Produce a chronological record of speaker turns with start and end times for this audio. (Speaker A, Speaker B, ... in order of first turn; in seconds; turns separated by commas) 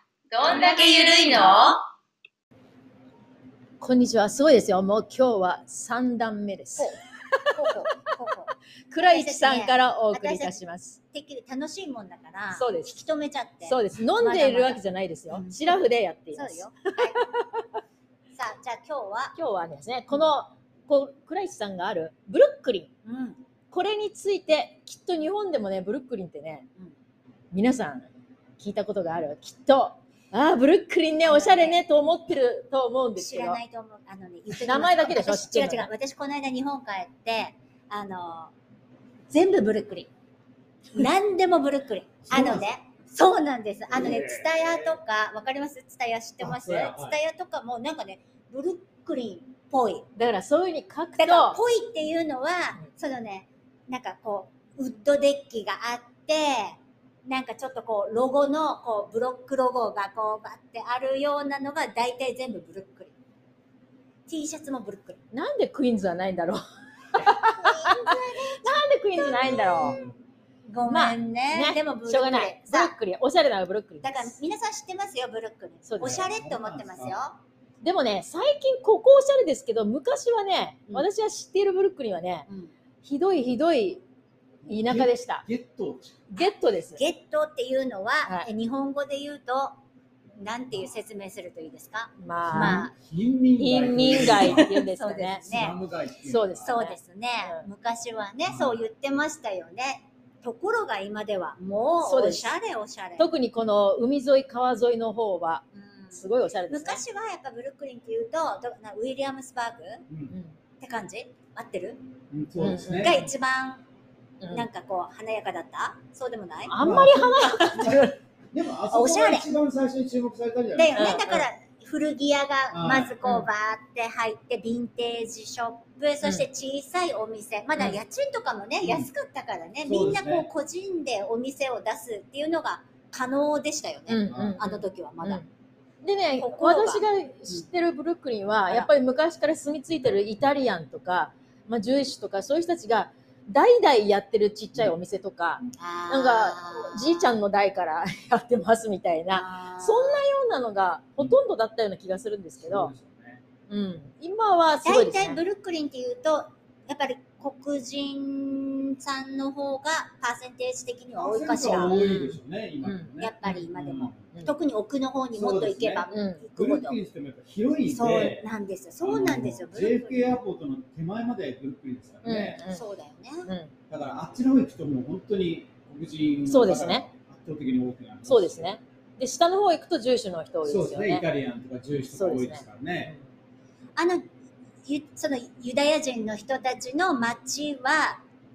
Speaker A: 0.3-1.7, Speaker B: 0.4-1.8, Speaker A: 3.8-8.0, Speaker B: 6.8-10.6, Speaker A: 8.9-11.0, Speaker B: 11.1-15.8, Speaker A: 12.5-13.0, Speaker A: 13.7-17.6, Speaker B: 16.3-17.2, Speaker B: 18.4-19.4, Speaker A: 19.4-22.9, Speaker B: 23.0-23.4, Speaker A: 23.7-26.7, Speaker A: 27.5-28.0, Speaker A: 28.6-33.6, Speaker B: 31.2-31.8, Speaker B: 33.1-38.5, Speaker A: 34.5-35.9, Speaker B: 39.3-40.1, Speaker B: 40.9-50.1, Speaker C: 42.3-42.7, Speaker C: 43.9-45.0, Speaker C: 46.4-47.2, Speaker A: 50.1-51.6, Speaker B: 51.2-63.1, Speaker B: 64.3-65.2, Speaker A: 65.3-66.6, Speaker A: 67.1-70.0, Speaker B: 67.2-70.0, Speaker C: 69.4-70.1, Speaker B: 70.7-72.9, Speaker A: 70.9-74.3, Speaker B: 74.0-77.4, Speaker A: 75.9-76.2, Speaker C: 76.0-77.2, Speaker A: 77.8-82.5, Speaker B: 82.5-82.7, Speaker A: 83.0-84.0, Speaker C: 84.6-86.3, Speaker A: 84.7-85.4, Speaker A: 86.3-87.0, Speaker B: 86.4-89.7, Speaker B: 90.4-92.9, Speaker A: 92.2-92.9, Speaker C: 92.5-94.7, Speaker A: 93.6-95.5, Speaker B: 94.1-95.8, Speaker C: 95.5-96.7, Speaker A: 96.3-97.6, Speaker B: 96.6-103.3, Speaker C: 98.5-98.8, Speaker A: 102.0-102.5, Speaker A: 103.2-107.0, Speaker B: 105.7-110.0, Speaker C: 110.1-110.3, Speaker B: 110.8-112.0, Speaker C: 112.3-113.2, Speaker A: 112.6-113.2, Speaker B: 112.9-113.8, Speaker B: 114.5-116.8, Speaker A: 116.7-118.2, Speaker C: 116.8-121.2, Speaker B: 118.9-119.5, Speaker B: 120.8-135.4, Speaker A: 121.0-121.5, Speaker C: 122.7-123.2, Speaker C: 128.8-129.1, Speaker C: 129.8-130.5, Speaker A: 134.1-135.4, Speaker C: 134.3-134.6, Speaker A: 136.0-152.9, Speaker B: 136.4-137.7, Speaker B: 145.8-147.3, Speaker B: 149.3-150.2, Speaker C: 152.6-153.4, Speaker A: 153.7-155.4, Speaker B: 154.8-161.9, Speaker C: 161.2-164.3, Speaker A: 161.8-163.6, Speaker B: 163.2-167.0, Speaker C: 165.3-168.5, Speaker A: 166.1-166.4, Speaker B: 167.9-170.4, Speaker C: 169.0-172.6, Speaker A: 172.2-172.8, Speaker B: 172.7-173.5, Speaker C: 173.9-178.7, Speaker A: 176.5-177.0, Speaker A: 178.3-181.2, Speaker C: 180.6-183.1, Speaker A: 182.1-183.2, Speaker B: 184.0-184.3, Speaker B: 184.8-188.2